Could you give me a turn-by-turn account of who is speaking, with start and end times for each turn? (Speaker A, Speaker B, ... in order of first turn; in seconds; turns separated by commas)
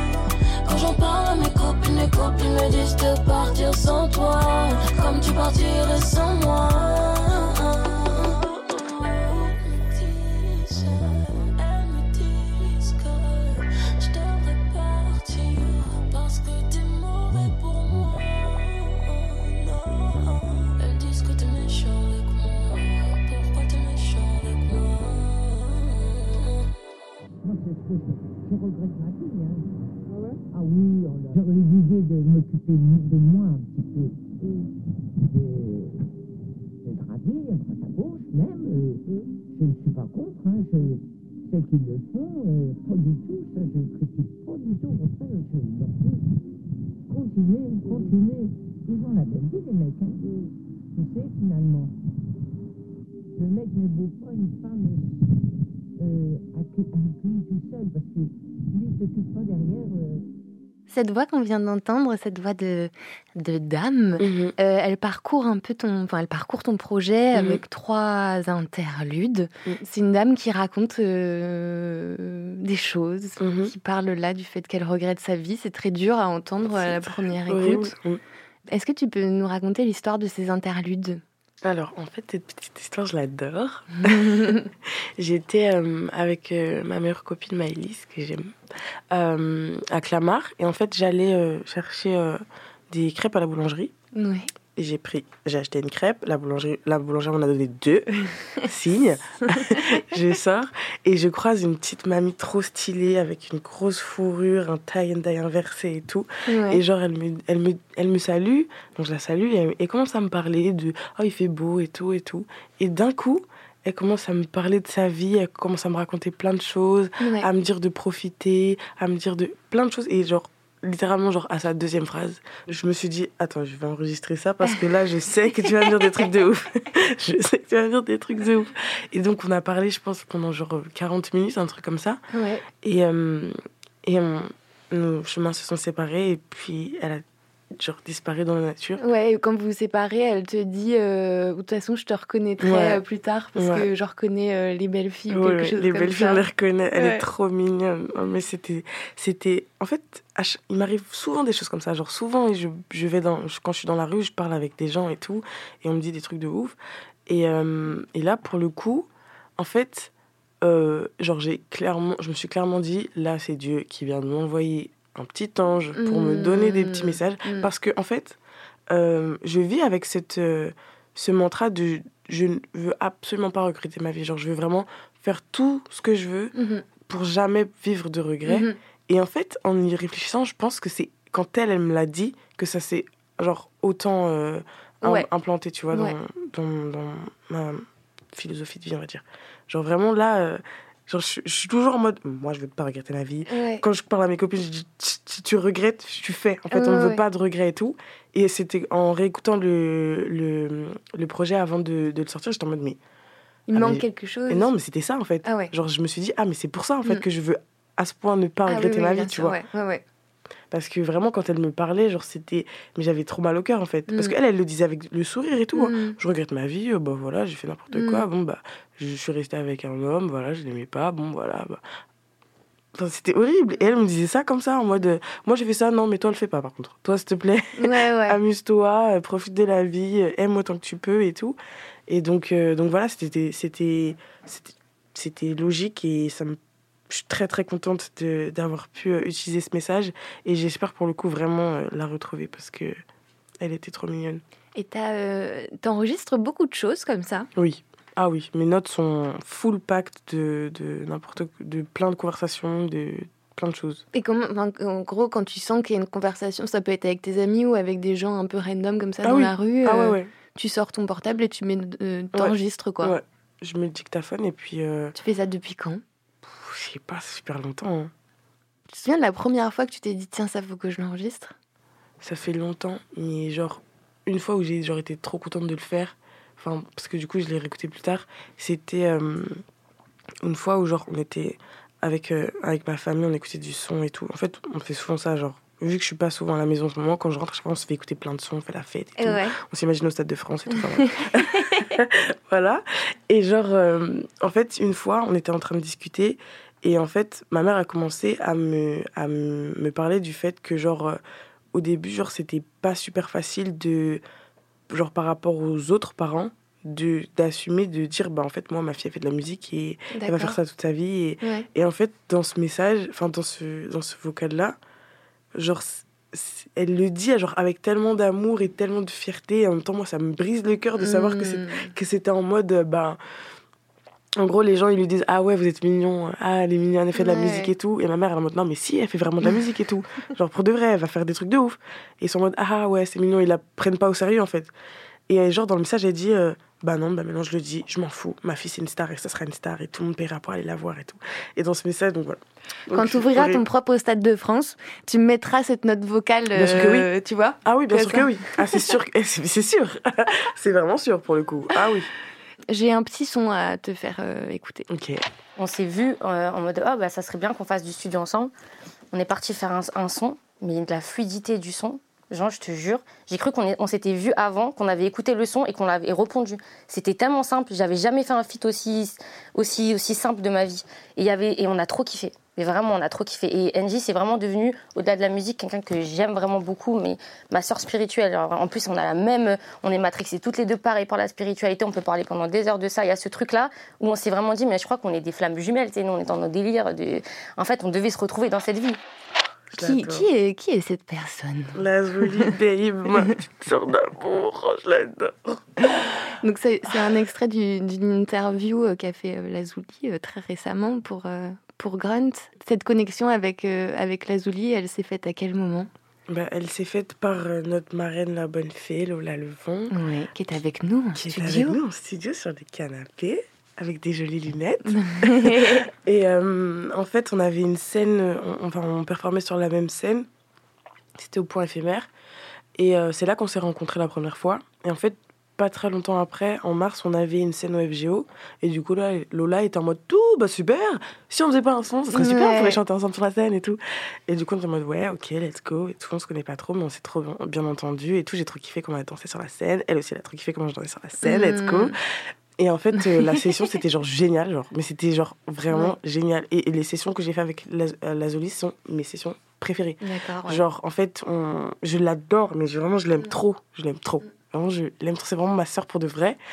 Speaker A: 0.6-26.6, Speaker B: 27.4-29.7, Speaker B: 30.5-36.0, Speaker B: 36.8-46.3, Speaker B: 47.1-50.4, Speaker B: 50.9-51.9, Speaker B: 53.3-55.3, Speaker B: 56.0-60.2, Speaker C: 60.9-77.9, Speaker D: 64.2-64.5, Speaker D: 67.3-67.6, Speaker D: 73.4-73.7, Speaker D: 76.7-78.2, Speaker C: 78.7-81.2, Speaker D: 81.6-88.5, Speaker C: 84.3-84.6, Speaker D: 89.1-93.9, Speaker C: 94.1-94.5, Speaker D: 94.8-132.2, Speaker C: 99.5-99.8, Speaker C: 106.5-106.8, Speaker C: 117.2-117.5, Speaker C: 132.3-132.6, Speaker D: 132.8-137.2, Speaker D: 137.7-139.0, Speaker C: 139.0-146.4, Speaker D: 142.6-143.0, Speaker D: 143.6-143.9, Speaker D: 145.3-160.1, Speaker C: 146.9-147.2, Speaker D: 160.6-168.4, Speaker C: 166.0-167.7, Speaker D: 168.9-203.0, Speaker C: 176.5-176.8, Speaker C: 178.5-178.8, Speaker C: 193.5-193.8, Speaker C: 196.7-197.2, Speaker C: 203.7-204.7, Speaker D: 203.7-209.6, Speaker C: 205.4-205.7, Speaker C: 208.7-210.0, Speaker D: 210.7-221.8, Speaker C: 214.1-214.3, Speaker C: 215.7-216.2, Speaker C: 217.9-218.2, Speaker D: 222.9-236.6, Speaker C: 227.8-228.4, Speaker D: 237.1-243.0, Speaker D: 243.6-244.4, Speaker C: 244.7-247.5, Speaker D: 247.6-254.0, Speaker C: 254.1-263.1, Speaker D: 259.2-260.3, Speaker D: 262.3-265.1, Speaker C: 265.2-266.0, Speaker D: 266.4-268.1, Speaker C: 268.9-271.5, Speaker D: 272.2-279.6, Speaker D: 280.4-301.2, Speaker C: 289.2-289.5, Speaker C: 291.3-291.9, Speaker D: 301.7-304.2, Speaker D: 304.9-314.8, Speaker C: 310.1-310.6, Speaker C: 311.4-311.7, Speaker D: 315.5-323.2, Speaker C: 321.0-321.9, Speaker D: 324.4-334.7, Speaker C: 327.1-327.7, Speaker D: 335.3-343.6, Speaker C: 342.9-348.8, Speaker D: 346.5-347.1, Speaker D: 347.6-352.1, Speaker C: 352.7-354.9, Speaker D: 354.9-355.2, Speaker E: 355.6-358.5, Speaker E: 359.1-389.0, Speaker D: 389.7-390.3, Speaker C: 389.8-392.5, Speaker D: 391.7-396.1, Speaker C: 396.4-405.9, Speaker D: 406.3-409.9, Speaker C: 409.9-411.8, Speaker D: 411.1-420.3, Speaker C: 414.9-415.9, Speaker D: 421.1-422.1, Speaker D: 422.8-441.9, Speaker C: 432.1-432.8, Speaker C: 441.2-441.9, Speaker D: 442.6-456.4, Speaker C: 443.0-443.6, Speaker C: 450.0-450.6